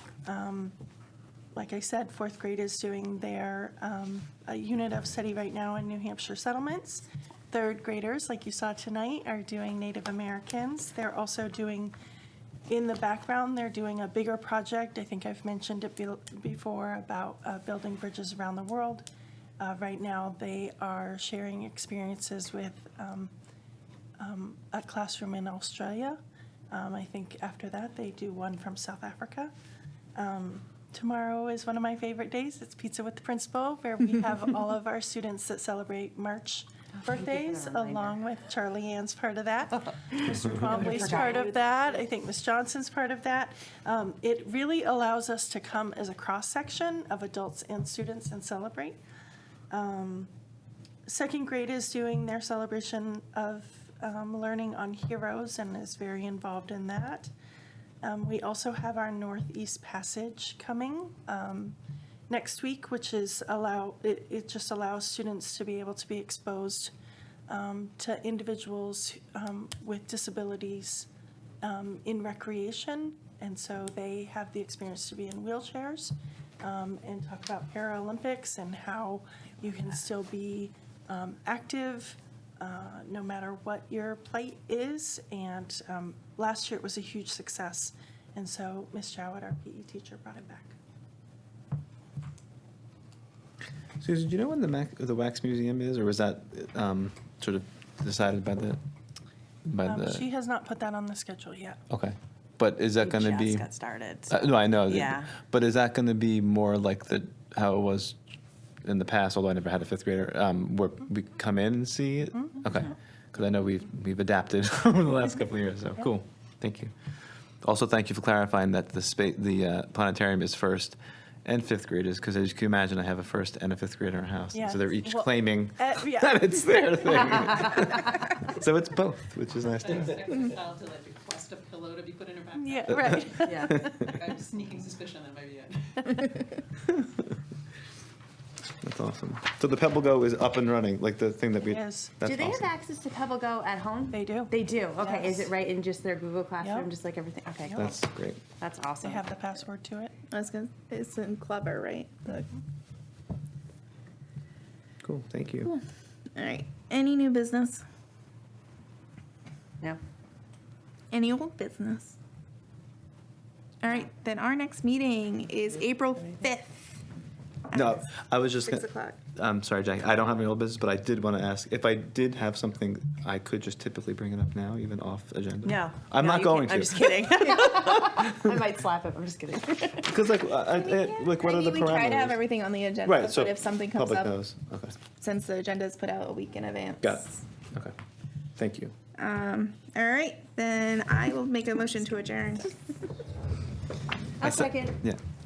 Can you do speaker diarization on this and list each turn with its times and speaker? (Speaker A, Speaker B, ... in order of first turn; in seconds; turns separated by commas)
Speaker A: 0.2-0.8, Speaker A: 1.5-11.9, Speaker A: 12.7-19.1, Speaker A: 19.6-23.3, Speaker A: 24.2-29.5, Speaker A: 30.1-49.0, Speaker B: 37.0-38.2, Speaker B: 40.2-42.0, Speaker A: 49.7-50.3, Speaker A: 51.0-57.3, Speaker A: 58.0-61.8, Speaker A: 62.3-66.9, Speaker A: 67.5-71.1, Speaker A: 71.6-90.8, Speaker C: 94.0-98.8, Speaker C: 99.6-100.2, Speaker A: 99.8-101.8, Speaker C: 101.9-103.7, Speaker B: 103.0-104.3, Speaker C: 104.3-108.2, Speaker C: 108.8-116.9, Speaker C: 117.6-130.3, Speaker A: 124.5-126.8, Speaker D: 129.7-136.4, Speaker A: 132.5-133.9, Speaker B: 133.4-133.8, Speaker C: 133.7-134.1, Speaker C: 138.8-142.7, Speaker A: 141.6-142.1, Speaker B: 142.2-147.9, Speaker A: 144.1-145.5, Speaker A: 146.6-146.9, Speaker C: 147.7-148.4, Speaker B: 148.6-149.4, Speaker A: 149.0-150.1, Speaker E: 150.3-152.5, Speaker C: 155.0-155.8, Speaker E: 156.3-157.8, Speaker E: 161.1-162.2, Speaker E: 163.8-166.7, Speaker C: 167.7-178.6, Speaker E: 168.6-169.2, Speaker B: 175.6-180.2, Speaker C: 180.0-182.4, Speaker E: 180.8-184.3, Speaker C: 183.0-184.9, Speaker E: 185.1-187.2, Speaker C: 187.0-187.9, Speaker C: 188.6-188.9, Speaker E: 189.2-192.8, Speaker B: 194.4-195.0, Speaker C: 194.4-195.2